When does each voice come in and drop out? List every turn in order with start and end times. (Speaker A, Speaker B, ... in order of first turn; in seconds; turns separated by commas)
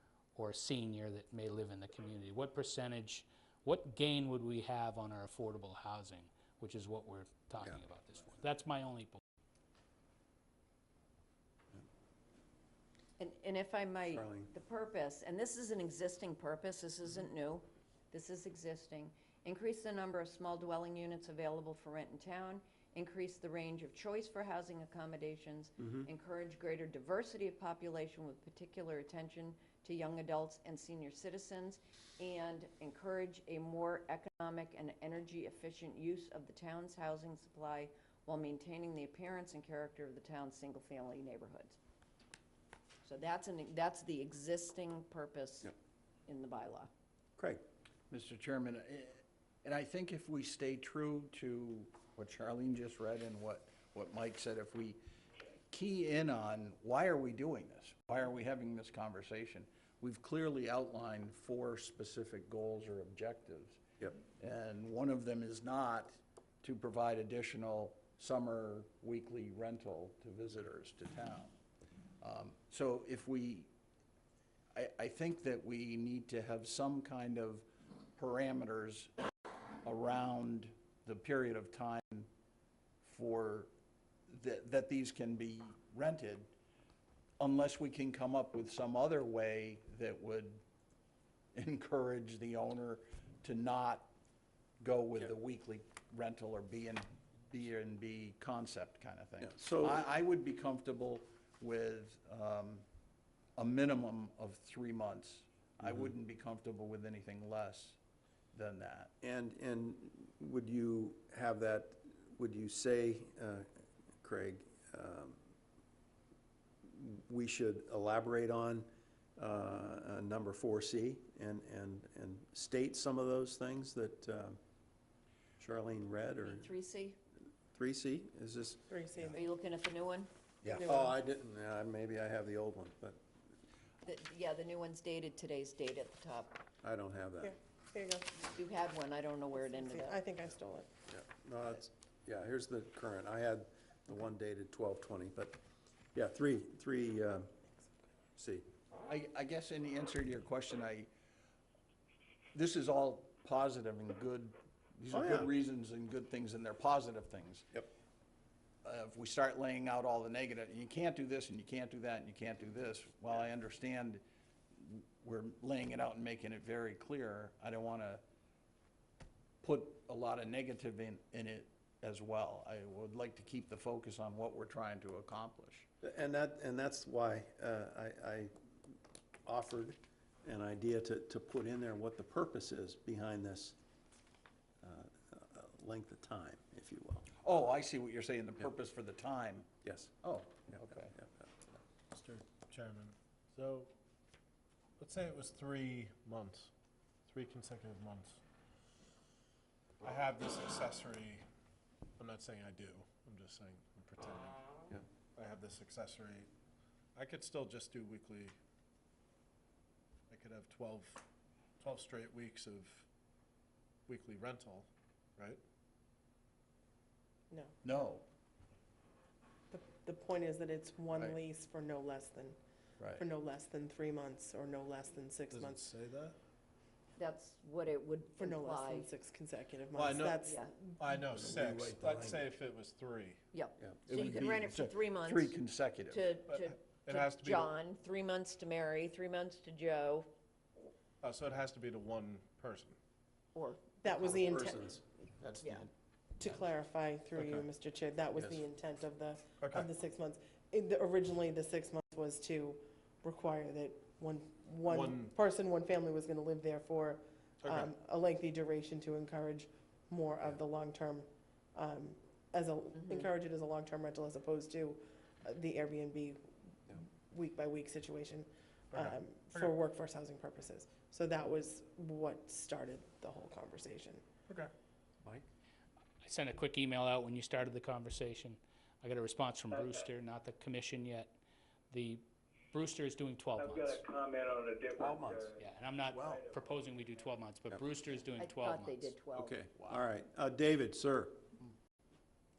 Speaker A: 0.4-9.2, Speaker B: 13.2-41.8, Speaker C: 14.1-14.5, Speaker B: 43.1-45.7, Speaker D: 43.2-44.1, Speaker D: 46.3-46.9, Speaker B: 46.3-46.7, Speaker C: 47.4-47.6, Speaker E: 48.1-55.0, Speaker E: 55.7-63.8, Speaker E: 64.4-71.5, Speaker E: 72.2-73.7, Speaker E: 74.8-79.1, Speaker E: 79.8-82.3, Speaker E: 83.0-83.7, Speaker E: 84.3-86.5, Speaker E: 87.4-90.6, Speaker E: 91.5-94.1, Speaker E: 94.8-102.8, Speaker C: 99.4-100.0, Speaker E: 103.6-108.0, Speaker E: 108.5-109.1, Speaker C: 109.2-113.7, Speaker C: 114.2-115.4, Speaker C: 116.9-124.6, Speaker C: 125.6-126.7, Speaker B: 126.5-127.2, Speaker C: 127.7-129.4, Speaker F: 128.9-129.4, Speaker B: 129.4-130.3, Speaker C: 130.6-133.2, Speaker F: 130.8-131.1, Speaker B: 134.1-136.6, Speaker C: 136.8-137.6, Speaker F: 137.4-138.4, Speaker B: 138.5-140.1, Speaker F: 139.5-140.9, Speaker C: 141.1-145.6, Speaker C: 146.2-147.5, Speaker C: 148.4-148.7, Speaker E: 149.1-151.1, Speaker E: 152.5-157.7, Speaker C: 155.1-155.5, Speaker E: 158.8-164.2, Speaker E: 164.8-168.2, Speaker E: 169.6-175.9, Speaker C: 176.0-178.5, Speaker C: 179.5-183.8, Speaker C: 184.8-187.3, Speaker E: 187.4-189.7, Speaker C: 189.8-190.1, Speaker E: 190.2-191.2, Speaker C: 190.7-191.7, Speaker G: 192.1-193.9, Speaker G: 195.0-196.7, Speaker G: 197.3-198.4, Speaker G: 200.0-201.4, Speaker G: 202.2-204.6, Speaker G: 205.3-206.5, Speaker G: 207.2-208.6, Speaker G: 210.3-211.2, Speaker G: 211.8-213.1, Speaker G: 214.1-215.6, Speaker E: 217.8-218.3, Speaker F: 219.7-222.6, Speaker E: 223.0-223.2, Speaker F: 223.2-225.9, Speaker G: 225.5-226.4, Speaker B: 227.2-229.1, Speaker F: 228.4-231.0, Speaker G: 229.9-233.4, Speaker C: 231.4-232.4, Speaker B: 233.5-235.6, Speaker C: 233.8-234.3, Speaker E: 234.1-236.3, Speaker B: 236.4-240.3, Speaker G: 236.5-237.8, Speaker G: 241.2-243.0, Speaker F: 244.0-245.0, Speaker E: 244.1-244.9, Speaker C: 244.5-245.0, Speaker E: 245.4-245.9, Speaker F: 246.4-266.4, Speaker G: 247.4-247.7, Speaker G: 249.6-249.9, Speaker G: 254.8-255.3, Speaker G: 257.6-257.9, Speaker F: 267.0-274.3, Speaker G: 268.9-269.7, Speaker A: 276.2-281.4, Speaker A: 281.9-284.1, Speaker D: 284.0-284.4, Speaker C: 285.0-285.5, Speaker A: 285.6-289.1, Speaker B: 288.4-289.6, Speaker D: 288.5-289.1, Speaker C: 289.3-291.4, Speaker E: 289.8-290.1